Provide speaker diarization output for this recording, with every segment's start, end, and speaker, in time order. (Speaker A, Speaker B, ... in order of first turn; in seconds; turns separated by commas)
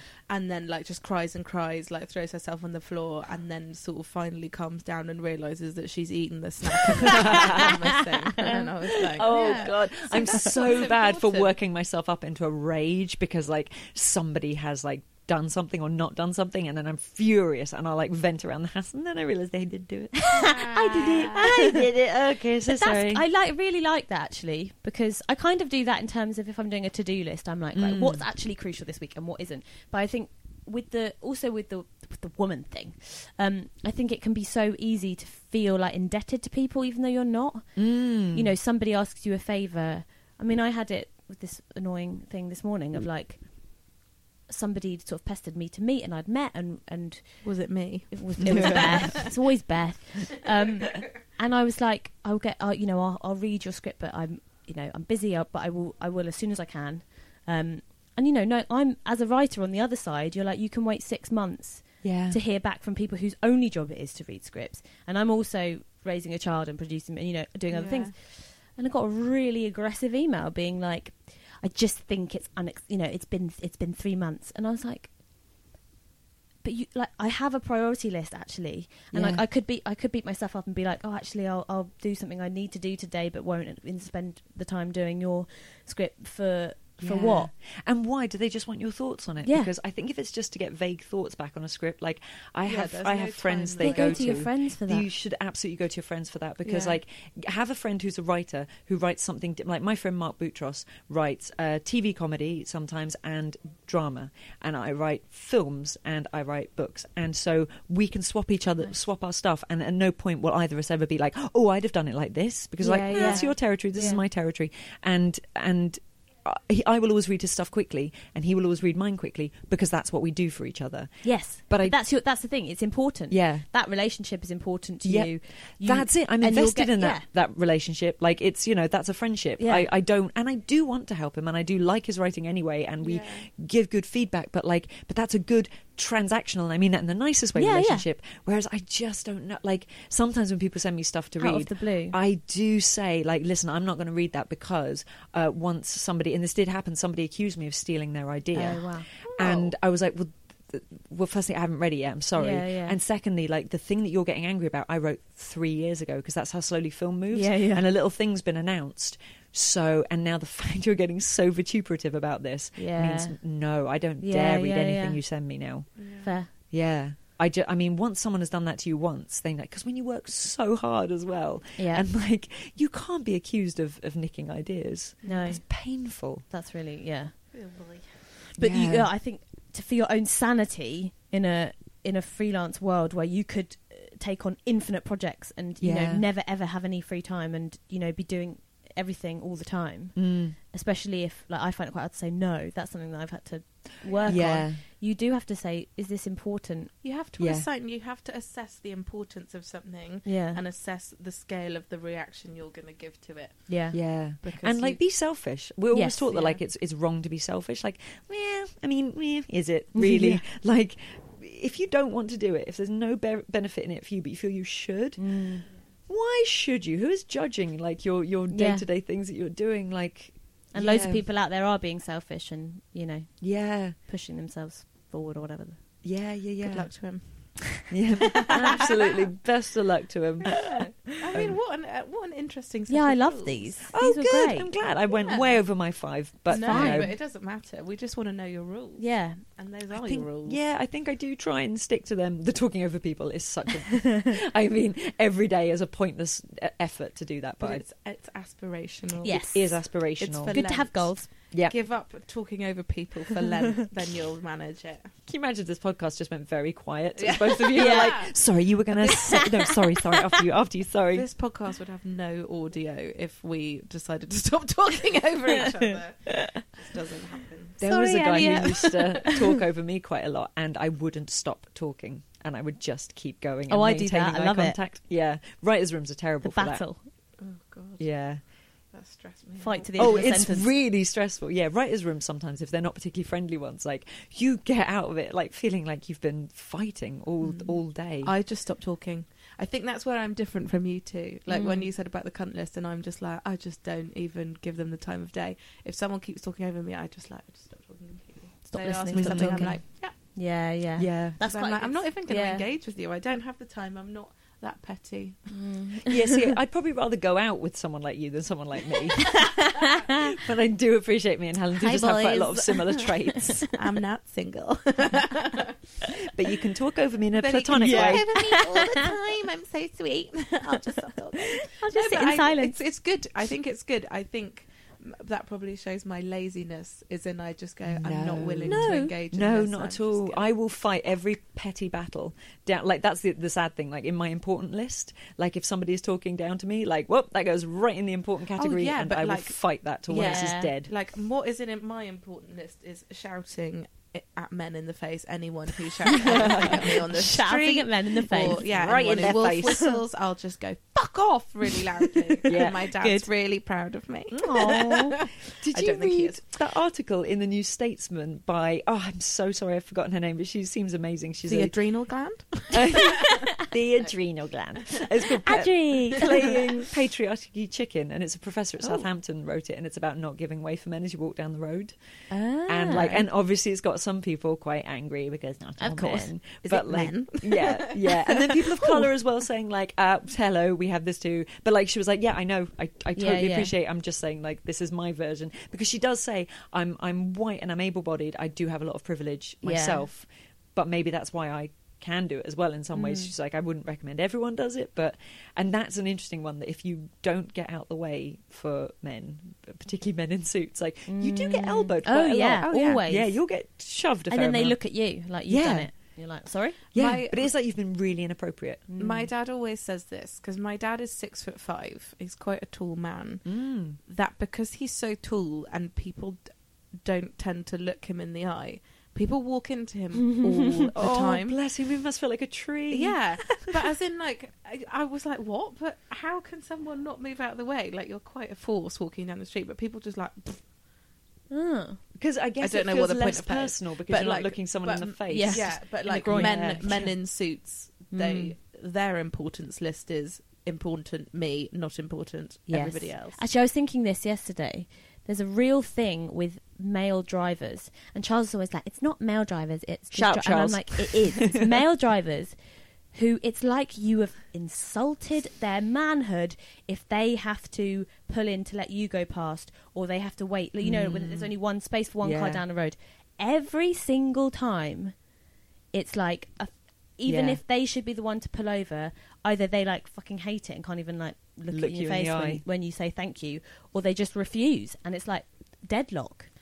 Speaker A: 0.3-11.6, Speaker B: 7.0-7.8, Speaker C: 7.1-7.7, Speaker B: 9.0-23.2, Speaker C: 20.2-21.9, Speaker A: 20.3-21.5, Speaker C: 22.7-75.2, Speaker B: 27.8-28.2, Speaker B: 37.8-38.5, Speaker A: 47.4-49.3, Speaker B: 48.4-49.2, Speaker B: 62.0-62.4, Speaker A: 67.7-68.2, Speaker C: 76.6-87.5, Speaker B: 79.1-79.5, Speaker B: 87.0-122.0, Speaker C: 89.4-89.7, Speaker A: 92.7-94.4, Speaker C: 93.8-95.1, Speaker A: 96.6-97.0, Speaker C: 112.8-114.2, Speaker A: 113.1-113.6, Speaker C: 121.2-127.3, Speaker B: 123.3-123.7, Speaker B: 125.0-176.5, Speaker C: 129.6-129.9, Speaker A: 133.0-133.5, Speaker C: 137.6-138.1, Speaker C: 141.4-142.2, Speaker C: 148.5-149.1, Speaker A: 149.2-149.7, Speaker C: 152.4-153.0, Speaker C: 157.3-157.9, Speaker C: 162.8-163.5, Speaker C: 164.2-165.2, Speaker A: 166.0-166.4, Speaker C: 166.2-166.5, Speaker C: 171.8-172.1, Speaker A: 175.2-175.5, Speaker C: 175.2-175.7, Speaker C: 176.5-177.5, Speaker A: 177.5-178.3, Speaker C: 178.5-196.9, Speaker B: 178.6-179.1, Speaker B: 185.8-186.2, Speaker B: 190.2-190.6, Speaker A: 194.0-194.6, Speaker B: 194.3-194.8, Speaker A: 197.0-205.0, Speaker B: 197.4-197.7, Speaker C: 200.2-200.6, Speaker C: 203.7-204.0, Speaker B: 203.9-221.3, Speaker C: 205.9-206.5, Speaker A: 206.3-206.6, Speaker C: 209.9-210.4, Speaker C: 215.2-215.7, Speaker C: 218.5-218.8, Speaker C: 220.7-225.8, Speaker B: 223.4-224.0, Speaker B: 226.0-226.9, Speaker A: 226.6-227.9, Speaker B: 227.9-230.6, Speaker A: 228.7-229.1, Speaker A: 230.5-233.8, Speaker B: 231.3-231.6, Speaker C: 232.9-234.7, Speaker B: 233.9-237.1, Speaker A: 235.1-235.6, Speaker A: 236.5-240.6, Speaker C: 236.5-237.1, Speaker C: 239.0-239.4, Speaker B: 239.9-247.8, Speaker A: 247.6-255.1, Speaker C: 249.2-251.3, Speaker B: 249.3-250.8, Speaker B: 255.3-261.3, Speaker A: 257.2-258.4, Speaker C: 257.8-258.2, Speaker A: 258.9-259.5, Speaker C: 259.2-259.7, Speaker A: 261.1-269.1, Speaker C: 266.3-266.6, Speaker B: 267.8-276.9, Speaker C: 267.8-269.5, Speaker C: 273.7-274.8, Speaker C: 276.4-277.1, Speaker A: 277.4-278.1, Speaker B: 278.0-278.4, Speaker A: 278.9-280.5, Speaker C: 279.6-280.7, Speaker B: 280.0-288.3, Speaker A: 287.4-300.1, Speaker C: 291.5-291.9, Speaker C: 298.7-302.6, Speaker B: 299.1-299.8, Speaker B: 301.0-301.4, Speaker A: 301.4-305.8, Speaker C: 305.5-306.4, Speaker B: 306.0-313.7, Speaker C: 309.6-310.1, Speaker C: 311.8-313.7, Speaker A: 313.7-315.7, Speaker B: 316.2-318.3, Speaker A: 317.4-330.5, Speaker C: 317.8-319.1, Speaker C: 321.5-322.8, Speaker B: 327.9-340.9, Speaker C: 328.6-329.1, Speaker A: 338.6-356.5, Speaker C: 340.1-340.7, Speaker B: 346.2-347.0, Speaker C: 346.3-348.7, Speaker B: 348.3-349.9, Speaker B: 352.5-352.8, Speaker C: 352.5-353.3, Speaker C: 354.4-354.9, Speaker B: 354.4-361.8, Speaker A: 361.5-363.2, Speaker B: 362.7-372.0, Speaker C: 363.2-363.5, Speaker C: 365.4-366.6, Speaker C: 372.3-373.3, Speaker B: 372.7-404.9, Speaker C: 375.8-376.3, Speaker A: 376.6-379.0, Speaker C: 383.2-383.7, Speaker C: 389.6-390.1, Speaker C: 392.9-393.3, Speaker C: 401.1-403.4, Speaker A: 402.6-403.0, Speaker C: 404.3-406.8, Speaker B: 405.5-405.9, Speaker A: 406.9-407.5, Speaker B: 406.9-408.9, Speaker C: 408.9-409.3, Speaker A: 409.0-421.6, Speaker B: 413.4-414.0, Speaker B: 420.9-423.7, Speaker A: 422.9-430.6, Speaker C: 431.5-432.0, Speaker B: 432.2-437.1, Speaker A: 432.6-443.4, Speaker C: 435.3-437.2, Speaker C: 438.1-438.6, Speaker C: 442.7-452.6, Speaker B: 450.1-451.6, Speaker C: 453.1-465.2, Speaker B: 460.8-461.5, Speaker B: 462.2-462.6, Speaker C: 465.9-476.5, Speaker B: 467.2-467.6, Speaker B: 471.7-472.6